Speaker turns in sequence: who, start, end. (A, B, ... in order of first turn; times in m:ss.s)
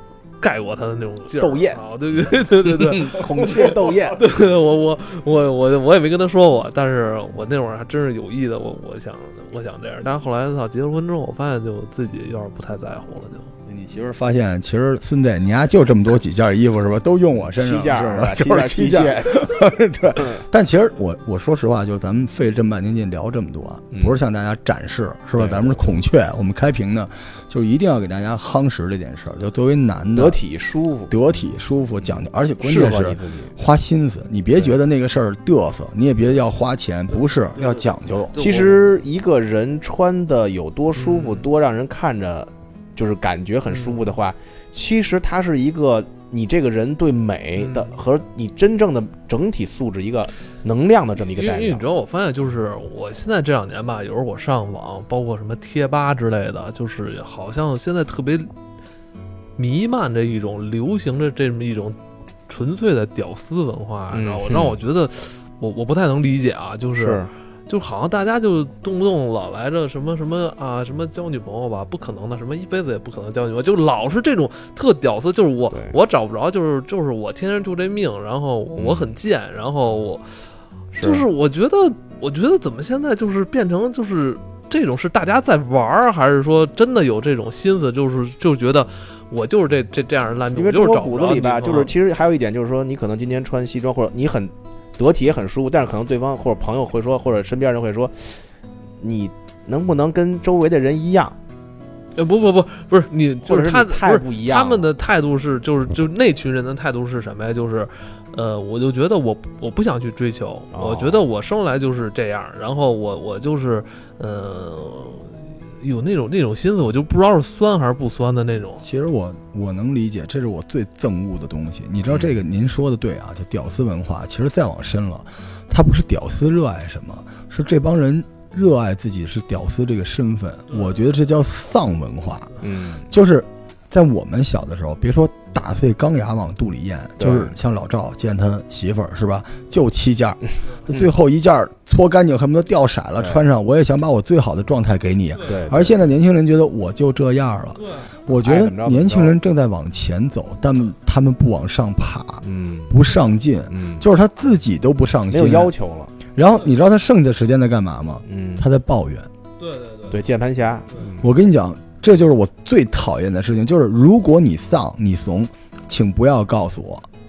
0:00.4-0:13.5 A
0:01.3-0:04.2 B
0:13.7-0:30.4 C
0:17.4-0:19.5 B
0:25.4-0:26.0 B
0:30.2-0:31.1 B
0:31.1-0:38.4 C
0:32.6-0:33.6 B
0:37.6-0:39.0 A
0:38.4-0:51.8 B
0:41.0-0:41.5 A
0:43.7-0:44.1 A
0:47.6-0:48.0 A
0:51.2-0:58.5 A
0:59.6-1:20.3 A
1:04.1-1:04.8 B
1:07.0-1:07.3 B
1:15.7-1:16.0 B
1:18.8-1:19.2 B
1:20.9-1:21.2 B
1:21.0-1:31.9 A
1:30.6-1:38.4 B
1:39.0-1:41.4 B
1:42.2-1:58.9 A
1:43.4-1:44.9 B
1:50.7-1:51.2 B
1:58.8-2:35.7 C
2:02.1-2:02.3 B
2:10.7-2:11.0 A
2:12.6-2:13.1 B
2:17.2-2:17.5 B
2:23.2-2:23.4 B
2:25.4-2:25.9 B
2:25.5-2:25.8 A
2:27.8-2:28.1 A
2:28.3-2:29.4 B
2:32.4-2:33.0 B
2:33.7-2:34.0 B
2:35.3-2:36.1 B
2:36.4-2:39.3 C
2:38.3-2:38.6 B
2:39.6-2:40.2 A
2:40.1-2:41.3 B
2:41.2-2:47.1 C